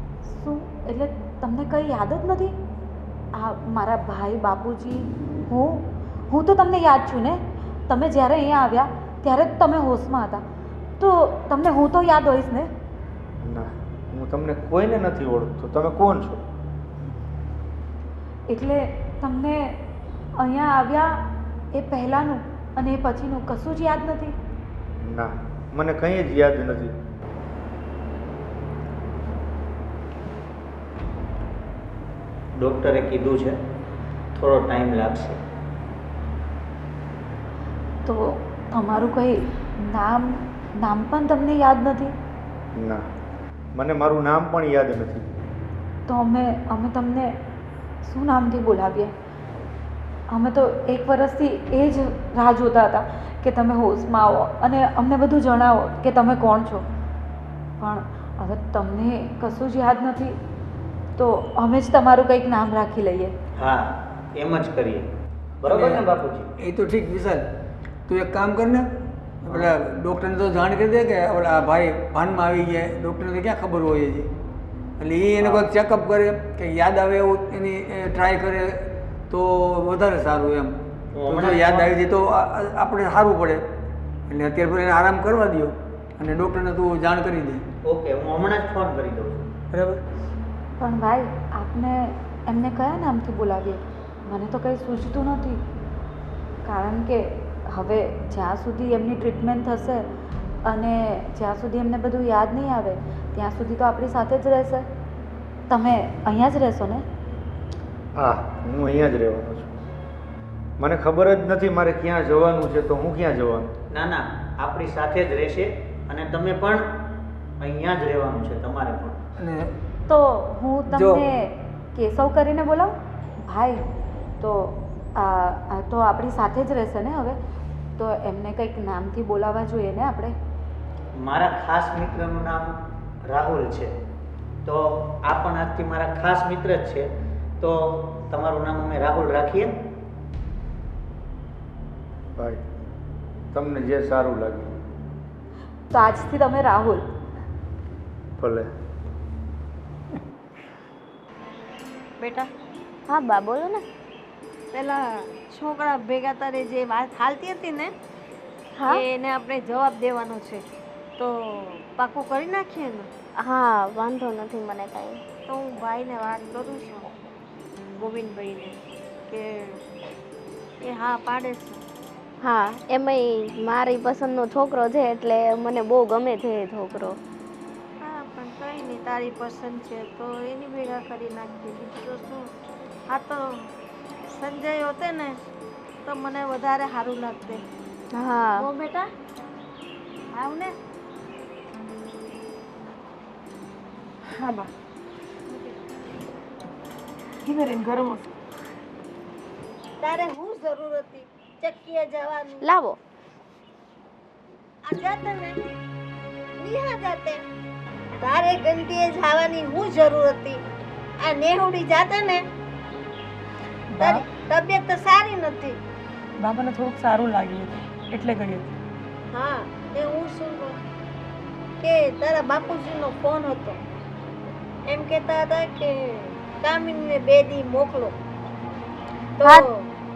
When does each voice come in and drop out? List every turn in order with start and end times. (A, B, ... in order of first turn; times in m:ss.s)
0:00.2-0:02.6 A
0:03.4-0:10.4 A
0:11.0-0:12.7 A
0:13.4-0:16.4 B
0:18.5-0:19.8 A
0:20.4-0:24.4 A
0:25.0-0:27.0 B
0:32.6-0:33.6 C
0:34.4-0:35.4 C
0:38.0-0:42.1 A
0:42.8-0:43.0 B
0:43.8-0:45.3 B
0:46.1-0:47.4 A
0:48.0-0:49.1 A
0:50.3-0:56.8 A
0:57.8-1:00.4 A
1:01.2-1:03.3 A
1:03.6-1:05.1 C
1:05.6-1:06.5 C
1:05.6-1:06.1 D
1:06.6-1:07.4 D
1:08.1-1:08.9 D
1:09.4-1:14.3 D
1:15.0-1:23.6 D
1:15.4-1:15.7 C
1:21.1-1:21.9 C
1:24.3-1:27.6 D
1:27.8-1:29.5 C
1:29.7-1:30.0 D
1:30.8-1:35.6 A
1:36.6-1:40.0 A
1:40.7-1:44.9 A
1:45.7-1:47.0 A
1:48.2-1:49.8 B
1:50.8-1:53.7 B
1:53.9-1:56.8 C
1:57.6-1:59.2 C
1:59.4-1:59.7 D
2:00.1-2:03.8 A
2:00.9-2:01.2 D
2:04.4-2:07.4 A
2:08.0-2:10.4 A
2:11.2-2:12.7 C
2:13.2-2:13.9 C
2:14.6-2:17.1 C
2:17.6-2:19.7 C
2:22.4-2:22.6 B
2:23.5-2:24.8 B
2:25.9-2:27.0 A
2:28.4-2:28.7 B
2:32.2-2:32.5 E
2:33.1-2:33.8 F
2:34.7-2:37.9 E
2:38.8-2:39.0 F
2:38.8-2:40.6 E
2:41.2-2:43.1 E
2:43.4-2:45.2 F
2:45.5-2:47.1 E
2:48.0-2:49.8 E
2:50.8-2:51.8 E
2:52.4-2:57.2 F
2:58.0-3:02.5 E
3:03.1-3:03.6 E
3:04.3-3:05.4 E
3:06.0-3:07.6 E
3:08.1-3:08.7 F
3:08.6-3:09.1 E
3:10.3-3:10.8 E
3:14.2-3:14.7 G
3:17.4-3:18.4 G
3:20.0-3:22.6 H
3:22.6-3:23.0 F
3:24.9-3:25.6 H
3:26.6-3:27.4 H
3:28.2-3:30.6 H
3:31.2-3:32.4 H
3:33.9-3:34.3 G
3:34.0-3:35.8 H
3:36.4-3:38.8 G
3:39.3-3:40.8 H
3:41.8-3:43.8 H
3:44.9-3:48.2 H
3:49.4-3:49.9 H
3:49.4-3:49.7 F